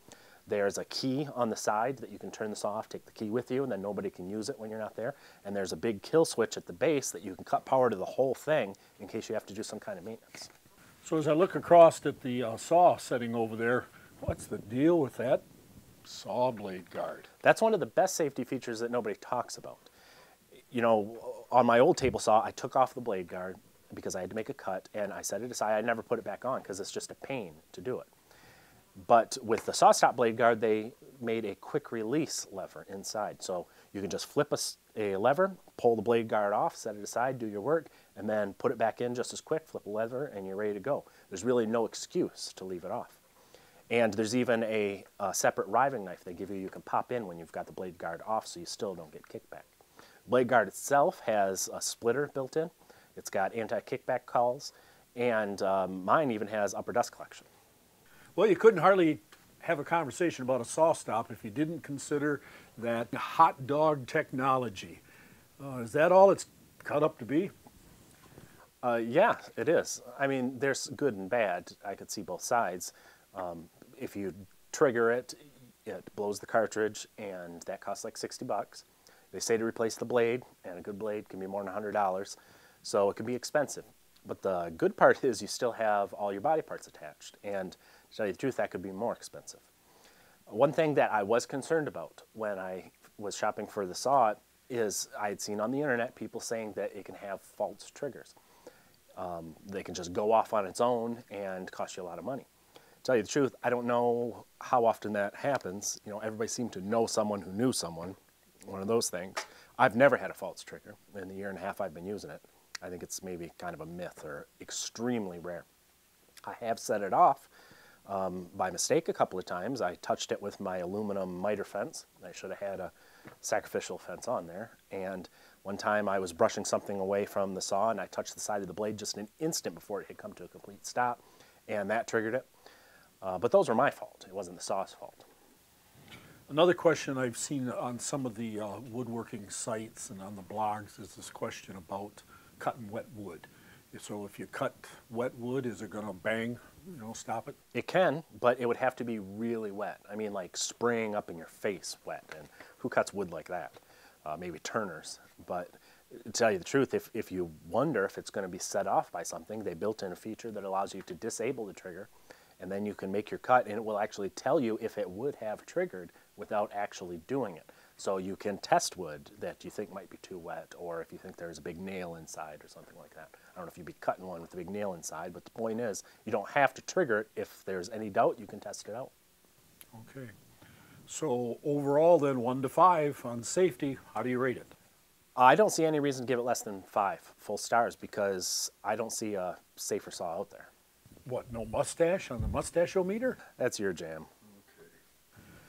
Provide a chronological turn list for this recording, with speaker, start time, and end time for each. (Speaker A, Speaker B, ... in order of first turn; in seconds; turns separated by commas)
Speaker A: 0.5-10.5, Speaker B: 11.0-15.4, Speaker B: 16.0-17.3, Speaker A: 17.4-19.9, Speaker A: 20.7-28.1, Speaker A: 29.0-43.2, Speaker A: 43.9-49.7, Speaker A: 50.3-57.5, Speaker B: 58.4-65.0, Speaker B: 65.6-67.5, Speaker A: 68.8-89.7, Speaker A: 90.5-98.3, Speaker A: 99.2-102.5, Speaker A: 103.0-115.6, Speaker A: 116.5-117.5, Speaker A: 118.1-132.5, Speaker A: 133.2-135.2, Speaker B: 136.5-147.6, Speaker A: 147.7-179.1, Speaker B: 179.9-180.3, Speaker B: 181.1-184.7, Speaker A: 185.3-190.7, Speaker B: 191.2-193.4, Speaker A: 193.6-194.3